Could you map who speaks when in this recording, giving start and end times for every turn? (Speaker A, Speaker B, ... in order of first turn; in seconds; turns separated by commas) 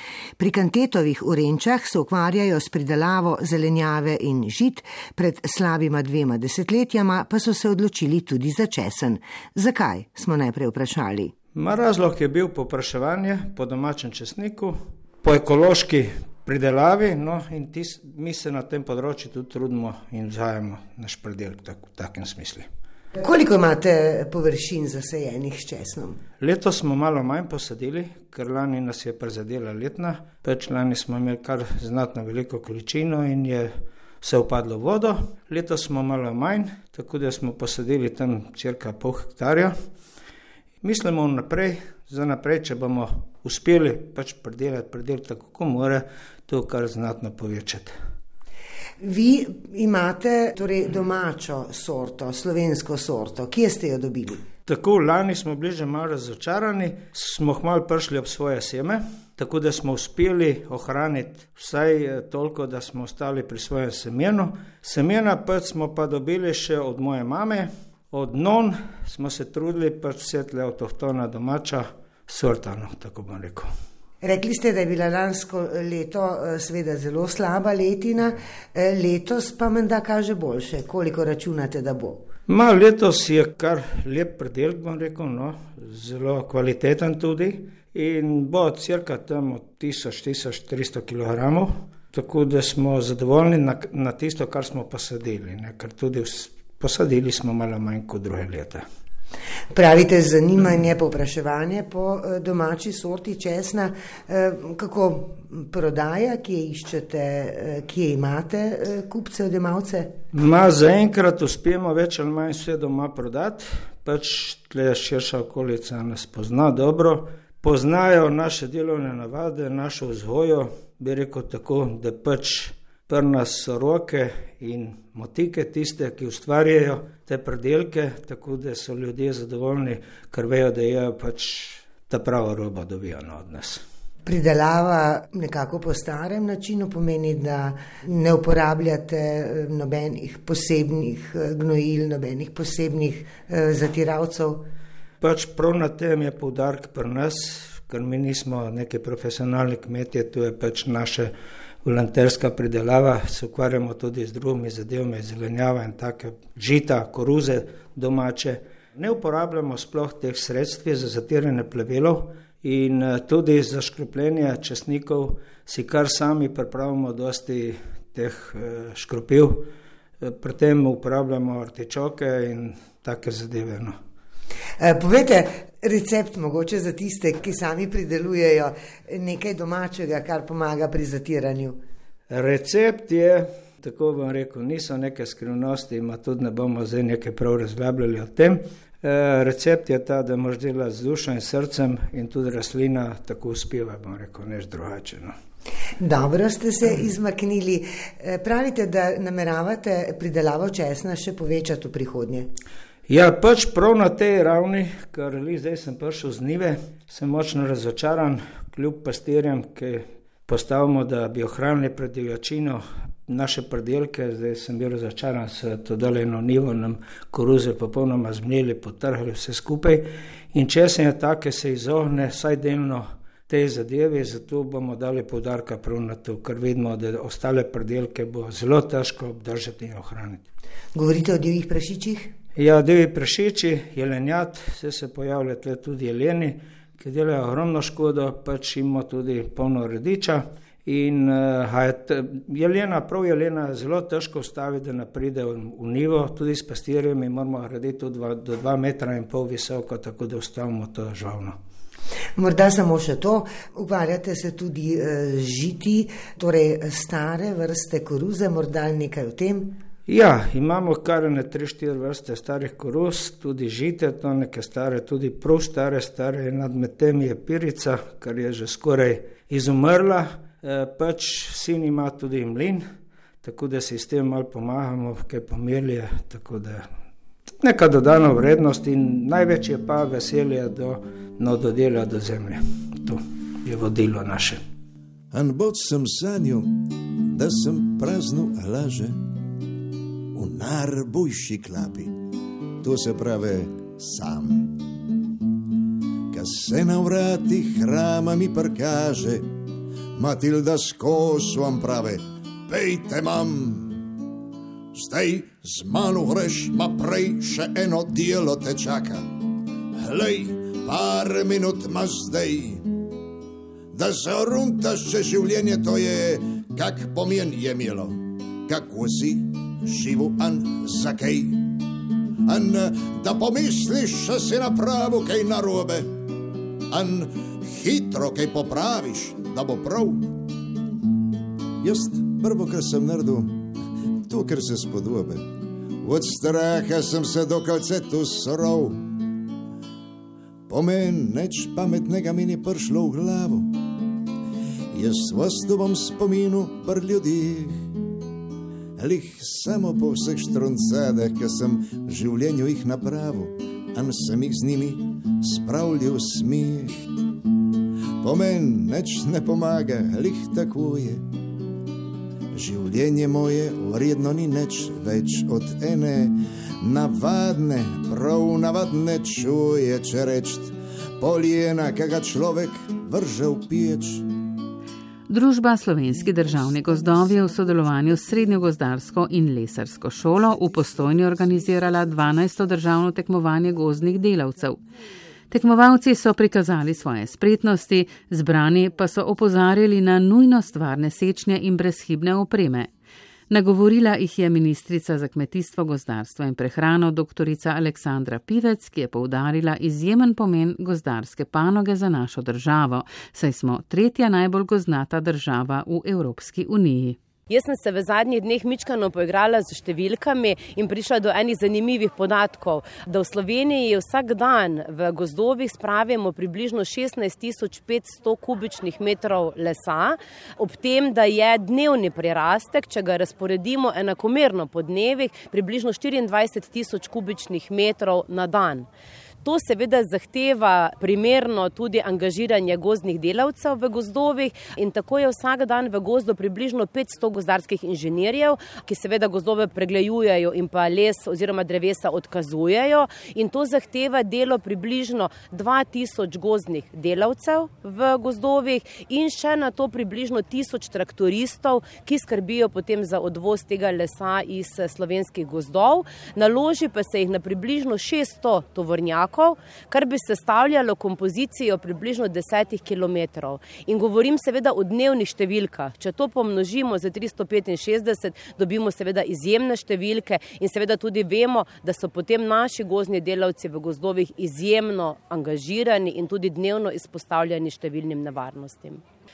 Speaker A: 0.4-11.3, Speaker B: 11.6-22.7, Speaker A: 23.1-26.2, Speaker B: 26.4-39.8, Speaker B: 40.8-47.9, Speaker A: 49.0-54.5, Speaker B: 54.7-73.7, Speaker A: 74.2-82.3, Speaker B: 82.5-98.8, Speaker A: 99.7-110.2, Speaker B: 110.3-133.8, Speaker A: 134.2-144.7, Speaker B: 145.2-151.3, Speaker B: 151.8-169.7, Speaker B: 170.2-174.0, Speaker A: 174.8-181.8, Speaker B: 182.3-195.4, Speaker A: 196.0-202.5, Speaker B: 203.1-230.4, Speaker A: 230.9-232.3, Speaker B: 232.6-251.6, Speaker A: 252.4-259.8, Speaker B: 260.1-272.9, Speaker B: 273.4-276.9, Speaker B: 277.6-284.6, Speaker C: 285.3-289.2, Speaker C: 290.4-292.2, Speaker C: 292.8-294.9, Speaker C: 296.3-299.6, Speaker C: 300.2-304.1, Speaker C: 304.9-309.4, Speaker C: 309.9-313.0, Speaker C: 313.9-321.8, Speaker C: 322.5-326.2, Speaker C: 326.9-330.4, Speaker C: 331.8-333.7, Speaker C: 334.2-339.2, Speaker C: 340.7-343.9, Speaker C: 344.9-347.9, Speaker C: 349.0-357.1, Speaker C: 358.2-361.3, Speaker C: 362.5-374.3, Speaker D: 375.3-384.8, Speaker D: 385.5-392.9, Speaker D: 393.5-407.2, Speaker E: 407.5-428.9, Speaker E: 429.4-479.0